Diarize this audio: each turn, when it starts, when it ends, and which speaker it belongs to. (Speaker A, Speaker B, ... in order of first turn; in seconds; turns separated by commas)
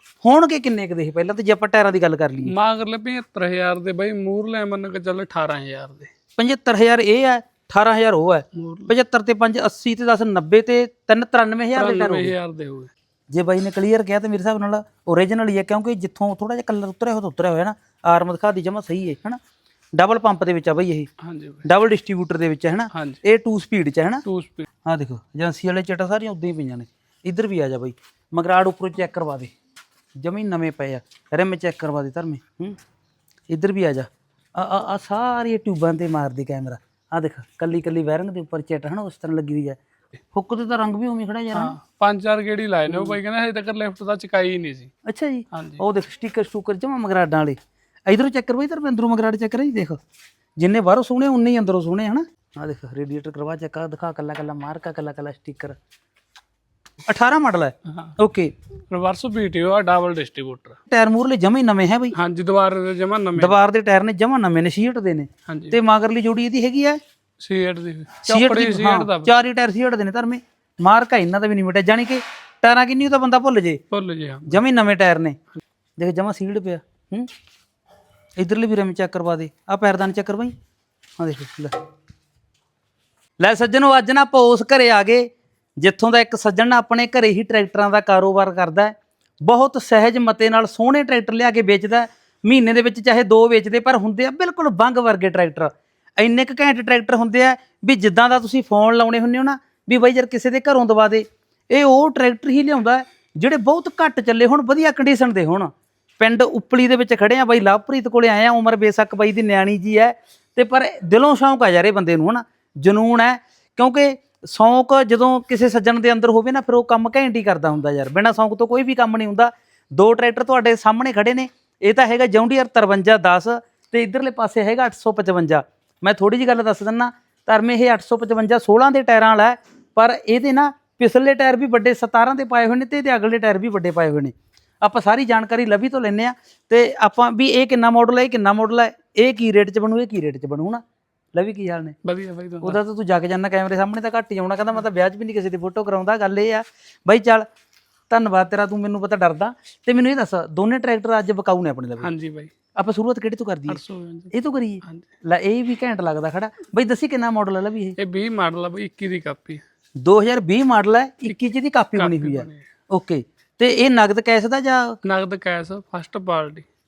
Speaker A: 0.2-2.5, Speaker B: 2.4-6.1, Speaker A: 6.4-12.3, Speaker B: 8.5-8.9, Speaker B: 11.7-12.9, Speaker A: 13.3-19.4, Speaker A: 19.9-21.1, Speaker B: 21.2-21.7, Speaker A: 21.6-24.2, Speaker B: 22.9-23.2, Speaker B: 24.2-24.7, Speaker A: 24.9-29.5, Speaker A: 30.2-32.8, Speaker A: 33.5-39.8, Speaker A: 40.3-41.8, Speaker B: 41.5-44.9, Speaker A: 42.9-43.2, Speaker A: 45.0-50.0, Speaker B: 45.5-45.8, Speaker A: 50.6-55.8, Speaker A: 57.1-58.5, Speaker B: 57.9-58.1, Speaker B: 58.9-60.8, Speaker A: 60.9-62.2, Speaker B: 62.1-63.6, Speaker A: 63.4-67.0, Speaker B: 65.5-65.8, Speaker B: 67.4-69.3, Speaker A: 68.2-73.8, Speaker B: 73.9-74.6, Speaker A: 74.5-75.4, Speaker A: 76.0-77.3, Speaker A: 78.4-80.5, Speaker A: 81.2-81.7, Speaker A: 83.4-140.8, Speaker A: 141.3-142.0, Speaker B: 142.0-142.8, Speaker A: 142.6-147.4, Speaker A: 148.1-152.1, Speaker B: 152.0-152.5, Speaker A: 152.8-153.8, Speaker B: 153.7-155.1, Speaker A: 154.3-158.0, Speaker B: 158.0-159.6, Speaker A: 160.0-165.0, Speaker B: 161.3-162.7, Speaker B: 165.0-166.7